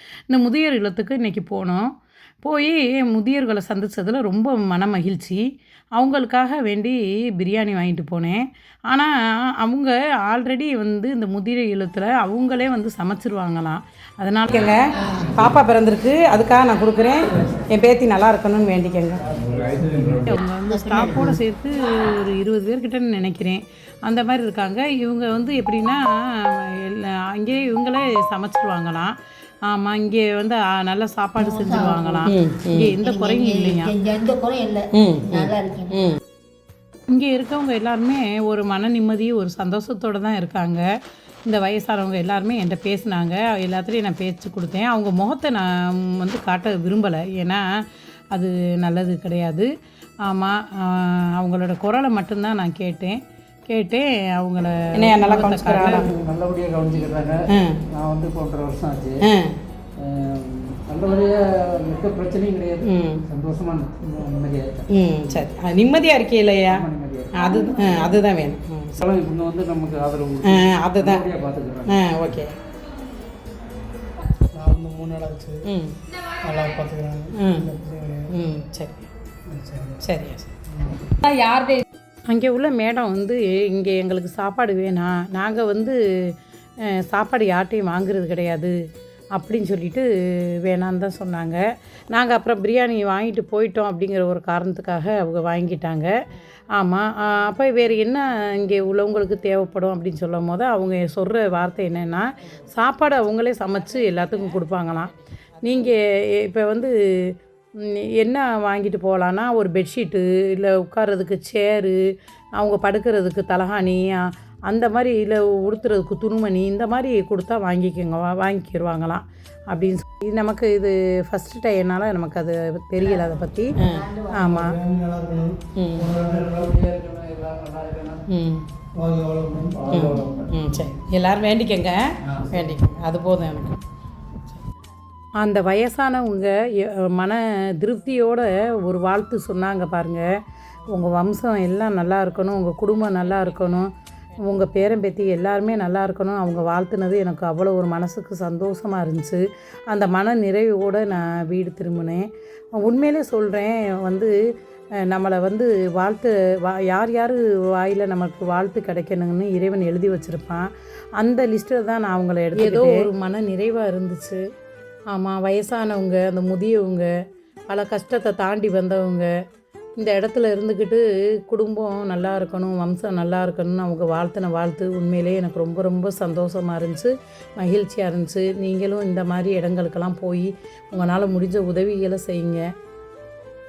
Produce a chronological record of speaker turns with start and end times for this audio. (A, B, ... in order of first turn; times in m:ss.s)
0:00.3-0:05.4 A
0:06.0-0:14.8 A
0:14.6-0:19.3 B
0:19.2-0:20.0 C
0:19.6-0:20.2 D
0:19.9-0:29.1 A
0:20.6-0:21.4 E
0:29.7-0:34.0 A
0:31.4-0:32.4 E
0:32.2-0:33.0 B
0:33.0-0:36.1 E
0:34.9-0:36.2 B
0:37.1-0:40.8 A
0:41.5-0:47.6 A
0:48.3-0:49.7 A
0:50.2-0:56.0 A
0:54.9-0:56.1 B
0:55.2-0:59.2 C
0:57.5-0:57.8 B
0:59.2-0:59.6 B
1:00.0-1:05.5 C
1:02.8-1:03.2 B
1:04.9-1:09.0 B
1:06.7-1:08.1 C
1:09.0-1:12.4 C
1:10.4-1:11.2 B
1:11.8-1:12.5 B
1:14.5-1:15.6 D
1:15.6-1:16.0 B
1:16.4-1:18.3 D
1:17.4-1:17.7 B
1:18.3-1:19.1 B
1:19.5-1:20.0 D
1:20.0-1:20.5 B
1:20.7-1:21.0 D
1:21.2-1:21.8 B
1:22.3-1:26.3 A
1:26.9-1:28.8 A
1:29.3-1:30.1 A
1:30.6-1:36.1 A
1:36.7-1:52.0 A
1:52.6-2:03.8 A
2:03.0-2:04.5 E
2:03.8-2:04.1 B
2:04.3-2:04.8 A
2:04.4-2:06.6 D
2:05.8-2:06.1 B
2:06.0-2:08.2 C
2:08.3-2:08.6 B
2:08.9-2:09.9 D
2:09.6-2:10.9 C
2:09.9-2:13.8 B
2:15.4-2:20.2 A
2:20.9-2:34.4 A
2:35.0-2:44.4 A
2:42.5-2:43.1 B
2:45.1-2:47.1 A
2:47.7-2:49.3 A
2:50.0-3:02.6 A